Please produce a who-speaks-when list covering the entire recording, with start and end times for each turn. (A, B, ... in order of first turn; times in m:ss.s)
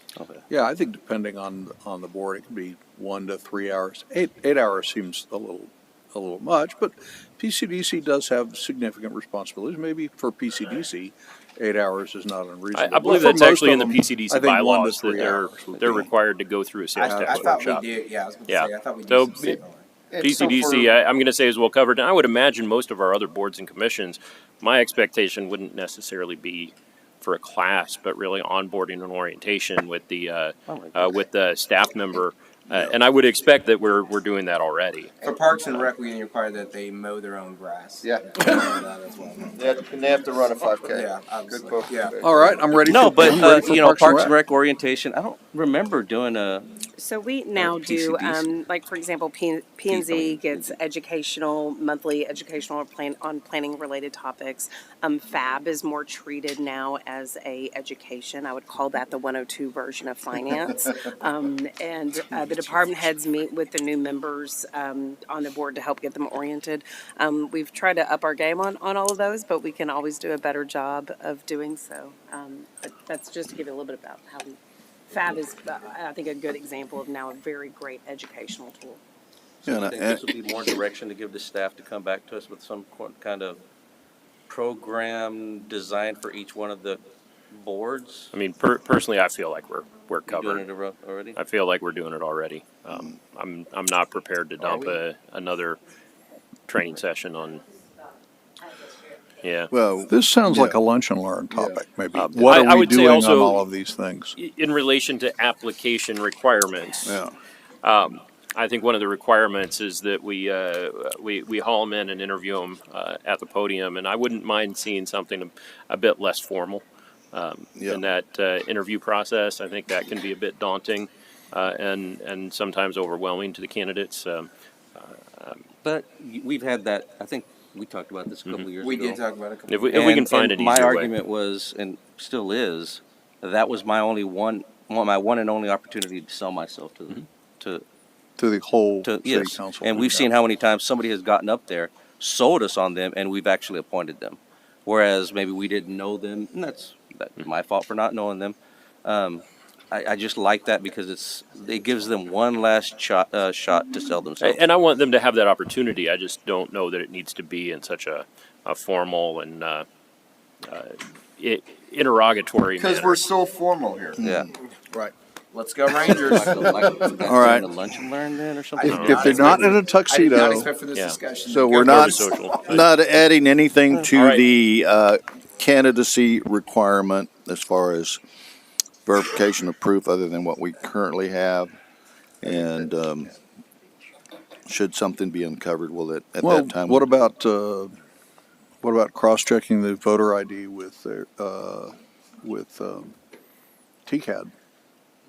0:00.2-0:00.4 A
0:00.5-0:16.1 B
0:12.8-0:17.9 C
0:17.0-0:20.7 D
0:17.1-0:17.6 B
0:18.5-0:19.6 C
0:20.1-0:20.9 E
0:20.2-0:35.1 C
0:30.7-0:31.2 A
0:35.2-0:39.7 D
0:38.0-0:38.3 E
0:39.6-0:42.6 E
0:40.8-0:42.2 D
0:42.2-0:44.4 B
0:42.9-0:46.7 A
0:46.9-1:14.6 F
0:47.6-0:48.5 A
0:49.9-0:50.8 A
1:15.1-1:19.0 F
1:19.6-1:20.2 G
1:19.7-1:23.6 A
1:24.5-1:28.3 A
1:28.3-1:30.6 C
1:30.3-1:31.4 A
1:31.4-1:35.8 C
1:36.7-1:37.6 C
1:39.4-1:39.7 C
1:39.7-1:40.8 G
1:40.1-1:44.4 B
1:41.5-1:42.7 G
1:42.4-1:43.6 C
1:44.4-1:47.2 C
1:47.0-1:47.4 G
1:47.8-2:05.6 C
1:57.8-1:58.0 G
2:05.8-2:09.2 A
2:08.8-2:10.0 D
2:09.7-2:11.1 C
2:09.9-2:17.8 A
2:18.4-2:20.3 B
2:19.0-2:34.6 A
2:34.4-2:39.9 C
2:40.6-2:43.2 C
2:42.8-2:44.2 E
2:44.2-2:44.5 G
2:44.2-2:44.5 A
2:45.5-2:47.6 D
2:46.3-2:49.6 A
2:47.2-2:47.7 G
2:48.8-2:52.8 D
2:48.9-2:50.7 B
2:50.9-2:51.2 C
2:51.5-2:58.2 G
2:51.8-2:52.9 C
2:54.1-2:54.4 C
2:59.1-3:01.8 G
3:02.4-3:03.3 G
3:02.4-3:02.9 E
3:04.7-3:07.1 G
3:06.4-3:07.9 B
3:08.8-3:13.1 B
3:14.1-3:14.5 B